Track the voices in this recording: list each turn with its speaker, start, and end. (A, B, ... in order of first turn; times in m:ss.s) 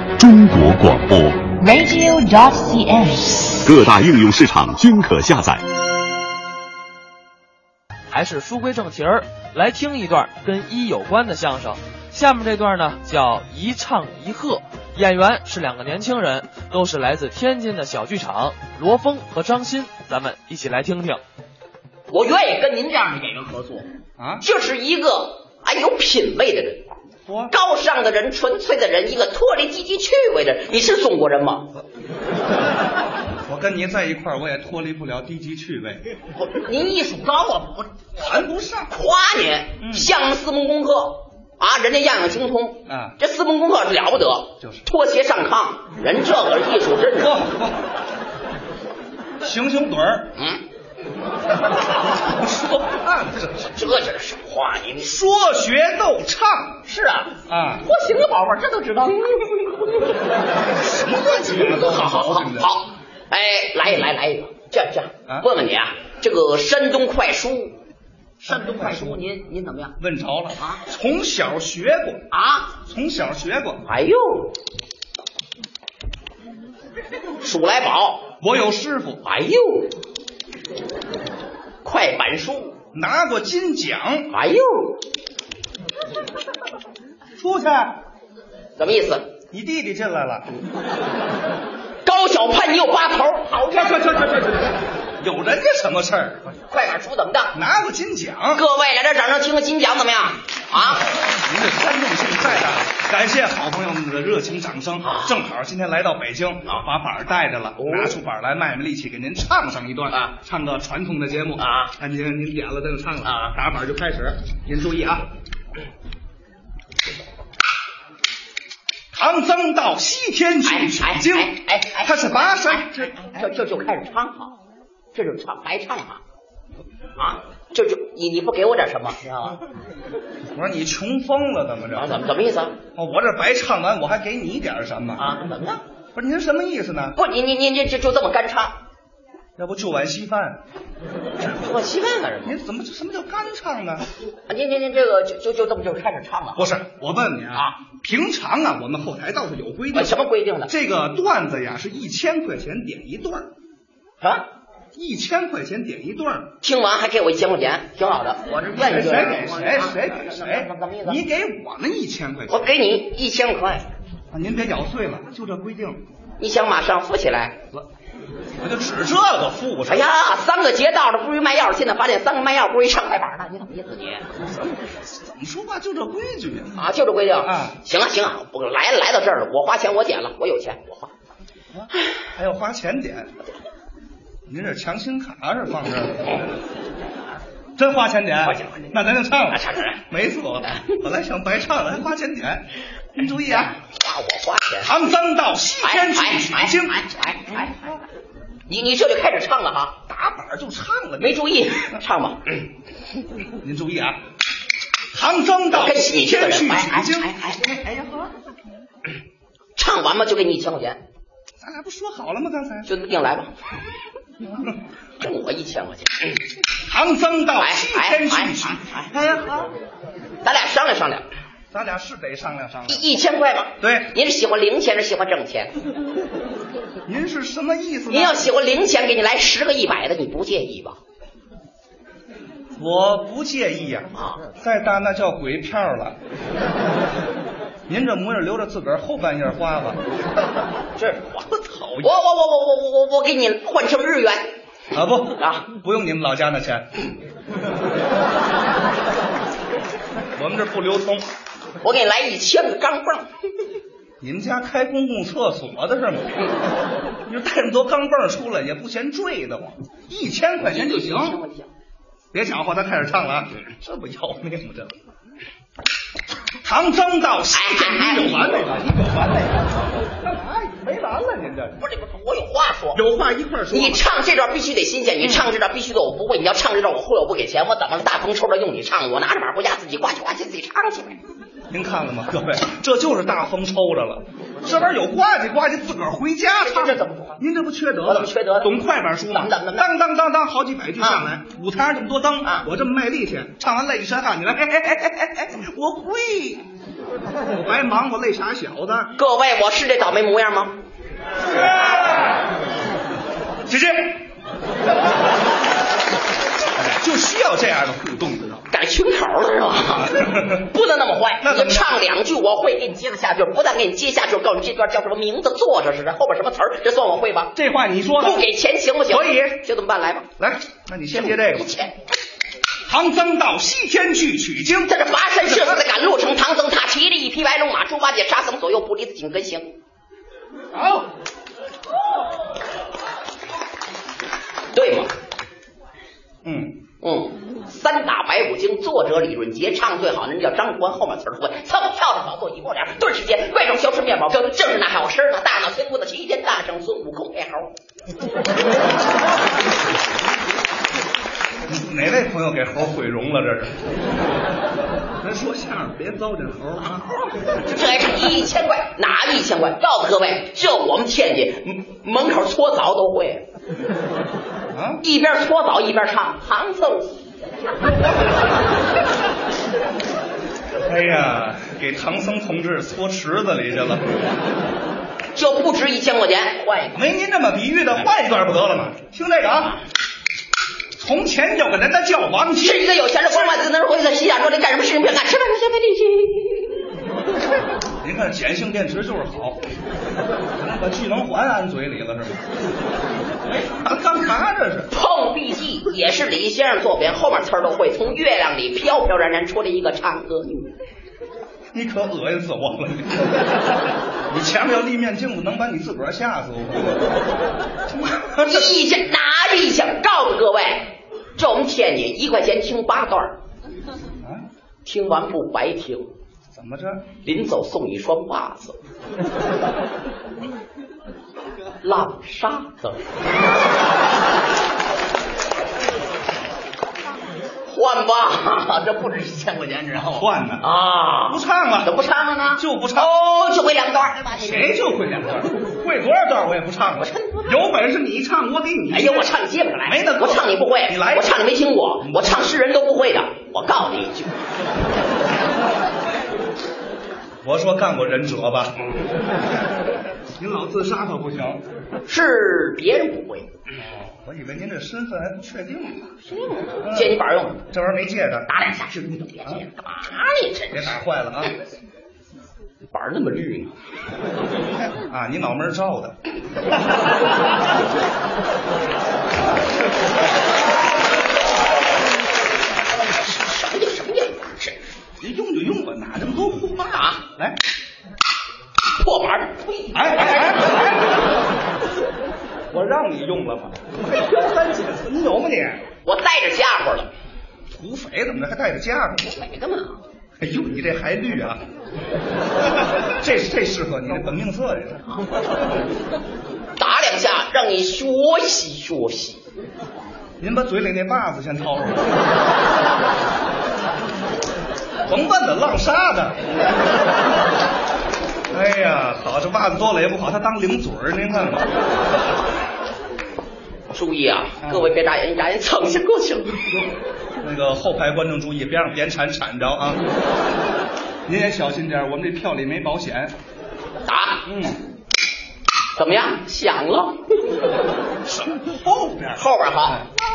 0:00.2-0:01.5 A
0:01.6-0:03.5 B
0:03.6-0:05.6 A
0:08.1-0:21.2 C
0:22.1-0:23.9 D
0:24.2-0:24.4 E
0:24.4-0:26.9 D
0:27.3-0:27.5 E
0:27.5-0:31.7 D
0:33.4-0:36.0 E
0:36.4-0:38.0 D
0:38.2-0:38.9 E
0:38.9-0:47.4 D
0:39.8-0:40.1 E
0:42.9-0:43.2 E
0:44.6-0:44.9 E
0:47.2-0:47.8 E
0:49.4-0:50.3 E
0:50.4-0:50.6 D
0:52.2-0:53.7 E
0:53.6-0:55.1 D
0:55.0-0:56.8 E
0:56.9-1:00.0 D
0:57.5-0:57.9 E
1:00.8-1:02.7 E
1:01.4-1:07.8 D
1:08.4-1:09.2 E
1:08.4-1:10.0 D
1:10.0-1:12.3 E
1:10.6-1:10.8 D
1:12.3-1:12.8 D
1:12.8-1:13.8 E
1:13.9-1:14.6 D
1:17.4-1:18.3 D
1:18.4-1:19.2 E
1:19.2-1:19.9 D
1:21.8-1:22.8 D
1:22.9-1:24.3 E
1:24.3-1:25.0 D
1:27.4-1:28.0 E
1:28.8-1:29.3 D
1:29.5-1:30.5 E
1:32.0-1:34.3 D
1:33.7-1:36.5 E
1:36.7-1:37.6 D
1:37.5-1:38.6 E
1:38.5-1:41.0 D
1:41.4-1:55.3 E
1:45.0-1:45.4 D
1:47.8-1:48.2 D
1:51.6-1:51.9 D
1:53.2-1:53.6 D
1:59.1-2:03.5 E
2:00.6-2:04.6 D
2:05.1-2:06.2 D
2:07.2-2:09.6 D
2:10.5-2:12.2 E
2:11.9-2:12.8 D
2:13.0-2:15.3 E
2:15.2-2:15.8 D
2:16.2-2:17.2 E
2:17.2-2:18.8 D
2:19.6-2:20.6 E
2:21.4-2:22.6 D
2:22.4-2:24.0 E
2:24.5-2:26.7 D
2:26.6-2:33.5 E
2:29.9-2:30.7 D
2:34.2-2:34.4 D
2:35.0-2:36.5 E
2:36.6-2:41.2 D
2:38.8-2:42.7 E
2:42.5-2:43.9 D
2:44.3-2:46.0 E
2:46.4-2:47.6 D
2:48.6-2:50.1 E
2:49.9-2:54.3 D
2:55.2-2:56.8 E
2:56.8-3:01.1 D
2:57.4-2:57.8 E
3:01.7-3:03.3 E
3:04.5-3:06.4 E
3:07.8-3:13.8 E
3:08.4-3:10.0 D
3:13.6-3:14.9 D
3:14.8-3:17.0 E
3:15.8-3:18.0 D
3:18.7-3:20.0 D
3:20.1-3:22.0 E
3:21.2-3:22.6 D
3:23.6-3:24.2 E
3:25.1-3:28.3 E
3:25.7-3:27.6 D
3:29.8-3:31.0 D
3:31.6-3:32.9 E
3:32.8-3:33.5 D
3:35.2-3:36.4 D
3:36.9-3:39.7 E
3:37.6-3:38.9 D
3:40.4-3:41.2 D
3:41.7-3:43.1 E
3:42.9-3:45.7 D
3:43.8-3:44.1 E
3:47.1-3:48.5 E
3:48.1-3:51.0 D
3:52.8-3:56.2 E
3:54.2-3:54.4 D
3:57.9-4:00.0 E
4:01.0-4:01.4 D
4:01.5-4:02.1 E
4:02.0-4:04.5 D
4:04.9-4:07.0 E
4:05.4-4:05.6 D
4:10.4-4:11.2 E
4:11.8-4:13.3 D
4:14.2-4:16.3 E
4:17.3-4:21.4 E
4:20.6-4:21.7 D
4:22.3-4:24.9 E
4:26.6-4:29.7 E
4:27.5-4:28.8 D
4:30.2-4:31.8 E
4:31.8-4:33.0 D
4:32.9-4:34.1 E
4:33.7-4:41.2 D
4:35.2-4:35.5 E
4:41.7-4:56.6 E
4:46.6-4:47.4 D
4:48.1-4:48.7 D
4:49.3-4:49.9 D
4:51.0-4:51.2 D
4:57.5-4:59.1 E
4:59.2-5:00.8 D
5:03.7-5:04.2 E
5:06.8-5:08.7 E
5:08.7-5:17.5 D
5:10.1-5:10.6 E
5:11.4-5:12.0 E
5:17.6-5:18.5 E
5:18.2-5:20.3 D
5:19.1-5:19.6 E
5:20.4-5:21.7 E
5:21.2-5:21.9 D
5:22.9-5:25.9 E
5:24.8-5:29.7 D
5:30.8-5:31.0 E
5:34.7-5:35.1 D
5:36.4-5:36.8 E
5:37.0-5:47.7 D
5:51.7-5:53.8 E
5:55.2-5:57.1 E
5:57.4-6:03.5 D
6:04.7-6:05.0 E
6:05.0-6:07.1 D
6:10.8-6:14.0 E
6:15.4-6:17.0 D
6:16.9-6:19.8 E
6:21.0-6:23.6 E
6:22.6-6:26.7 D
6:28.0-6:29.6 E
6:30.6-6:32.4 E
6:33.6-6:34.9 E
6:34.9-6:40.7 D
6:41.7-6:43.4 E
6:44.3-6:47.1 E
6:48.0-6:48.7 E
6:48.4-6:53.4 D
6:54.8-6:56.1 D
6:56.5-6:57.0 E
6:57.2-6:58.8 D
7:01.8-7:03.0 D
7:07.7-7:14.6 D
7:10.2-7:10.6 E
7:11.3-7:11.9 E
7:12.6-7:13.2 E
7:14.3-7:19.3 E
7:17.0-7:17.6 D
7:18.9-7:24.3 D
7:19.9-7:21.4 E
7:22.0-7:22.4 E
7:27.4-7:28.8 E
7:30.4-7:31.6 E
7:32.1-7:33.5 D
7:33.8-7:36.0 E
7:36.2-7:37.6 D
7:36.8-7:38.5 E
7:38.5-7:41.0 D
7:40.7-7:41.5 E
7:42.9-7:43.7 D
7:44.7-7:46.2 E
7:53.2-7:54.8 D
7:55.2-7:57.6 E
7:56.9-7:57.2 D
7:59.0-8:00.8 D
7:59.9-8:01.0 E
8:02.7-8:05.9 E
8:06.0-8:07.1 D
8:07.7-8:09.3 E
8:09.2-8:10.0 D
8:10.4-8:11.6 E
8:13.2-8:15.1 E
8:16.8-8:19.4 D
8:20.4-8:22.1 E
8:25.1-8:26.4 E
8:28.5-8:31.7 E
8:33.9-8:36.8 D
8:34.6-8:34.9 E
8:37.4-8:40.0 E
8:41.3-8:43.4 E
8:44.1-8:44.5 D
8:44.5-8:44.8 E
8:46.0-8:47.2 D
8:48.3-8:50.1 E
8:49.4-8:50.0 D